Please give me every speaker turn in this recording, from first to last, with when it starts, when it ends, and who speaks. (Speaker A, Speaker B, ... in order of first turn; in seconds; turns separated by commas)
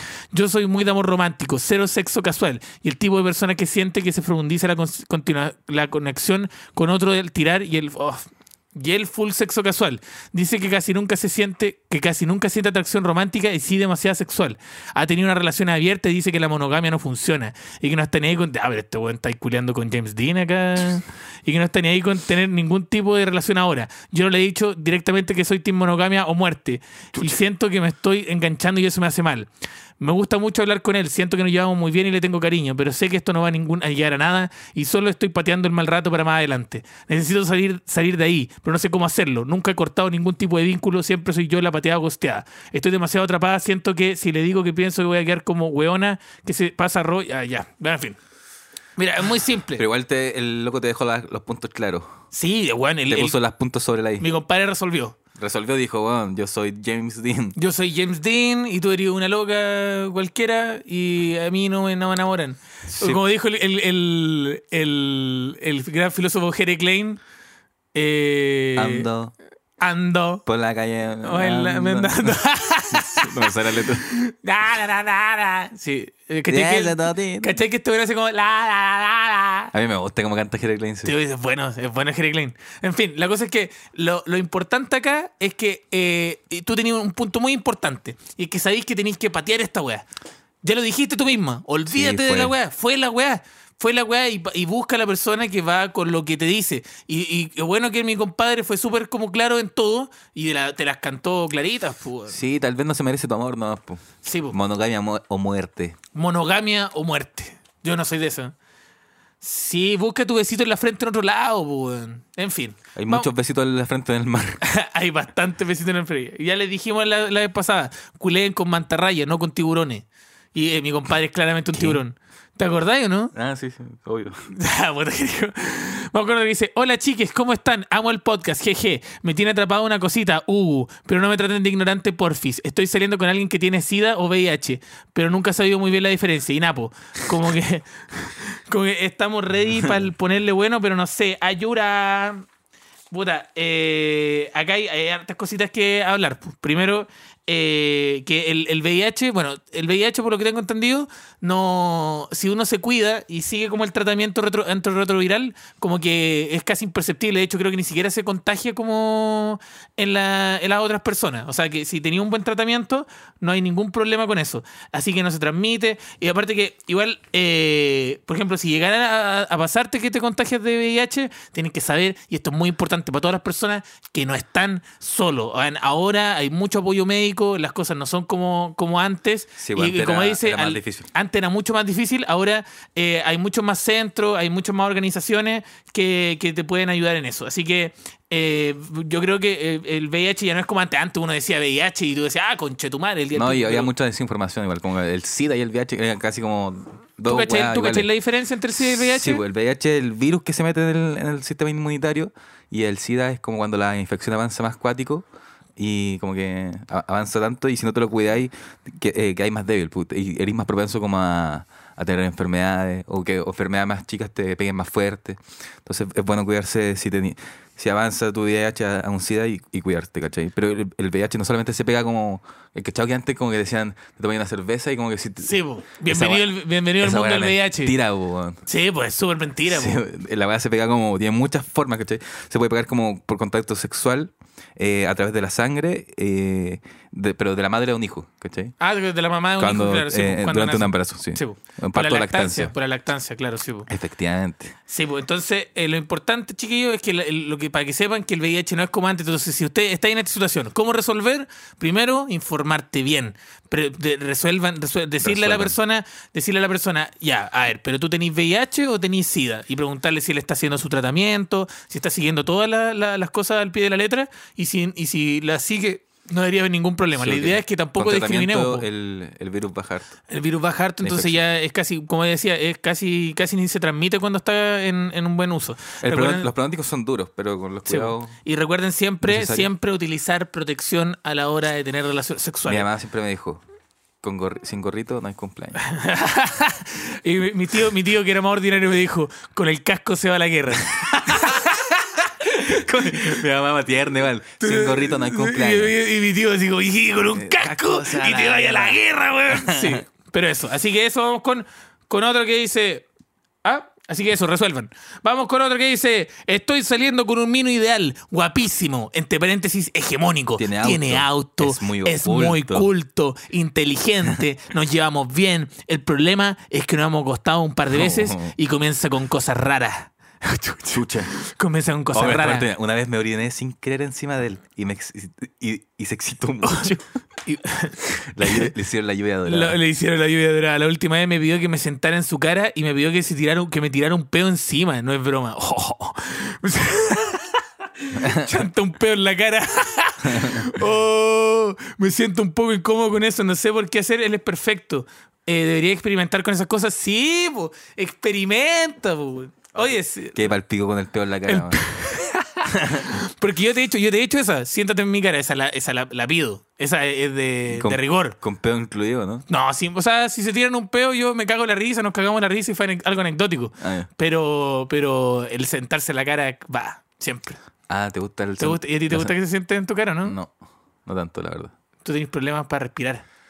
Speaker A: 0.3-29.5, Speaker B: 27.1-27.4, Speaker A: 30.0-48.2, Speaker A: 49.0-49.8, Speaker B: 49.8-52.2, Speaker A: 52.3-53.4, Speaker B: 53.1-54.3, Speaker A: 54.2-55.2, Speaker B: 55.4-57.5, Speaker A: 57.5-67.2, Speaker B: 62.9-63.2, Speaker A: 67.9-69.1, Speaker B: 68.8-69.3, Speaker A: 69.8-70.4, Speaker B: 70.5-74.0, Speaker A: 71.2-79.7, Speaker B: 76.5-77.6, Speaker B: 79.7-81.1, Speaker A: 81.0-90.0, Speaker A: 90.6-102.4, Speaker B: 91.8-92.5, Speaker B: 102.3-106.0, Speaker A: 104.2-104.6, Speaker A: 106.1-108.5, Speaker A: 109.4-113.3, Speaker B: 112.9-114.6, Speaker A: 114.6-123.3, Speaker B: 121.7-122.0, Speaker B: 123.3-124.5, Speaker A: 124.5-142.4, Speaker A: 143.1-193.9, Speaker B: 179.6-181.1, Speaker B: 193.3-198.1, Speaker A: 197.3-199.4, Speaker B: 198.8-205.2, Speaker B: 205.8-228.6, Speaker A: 225.4-227.9, Speaker A: 228.7-230.0, Speaker B: 229.7-238.7, Speaker A: 238.8-243.9, Speaker B: 239.6-242.7, Speaker B: 243.9-244.8, Speaker A: 244.9-268.9, Speaker B: 255.2-255.8, Speaker B: 267.1-270.2, Speaker A: 270.3-276.5, Speaker B: 271.0-271.4, Speaker B: 276.0-278.3, Speaker A: 277.9-282.9, Speaker B: 279.2-279.7, Speaker B: 282.6-283.6, Speaker B: 284.2-285.8, Speaker A: 285.8-292.8, Speaker B: 291.1-291.6, Speaker B: 292.6-295.9, Speaker A: 294.6-303.1, Speaker B: 297.3-300.0, Speaker A: 303.6-322.7, Speaker B: 310.6-312.9, Speaker B: 317.9-318.5, Speaker B: 320.9-321.3, Speaker B: 322.1-327.0, Speaker A: 327.4-328.7, Speaker B: 328.3-329.8, Speaker A: 329.4-350.5, Speaker B: 338.1-338.6, Speaker B: 340.2-340.7, Speaker B: 349.7-351.8, Speaker A: 351.5-358.4, Speaker B: 352.7-353.1, Speaker B: 357.7-359.4, Speaker A: 359.5-367.6, Speaker B: 363.8-364.1, Speaker B: 367.9-369.3, Speaker A: 368.6-370.4, Speaker B: 370.2-370.5, Speaker B: 371.1-371.7, Speaker A: 372.0-373.2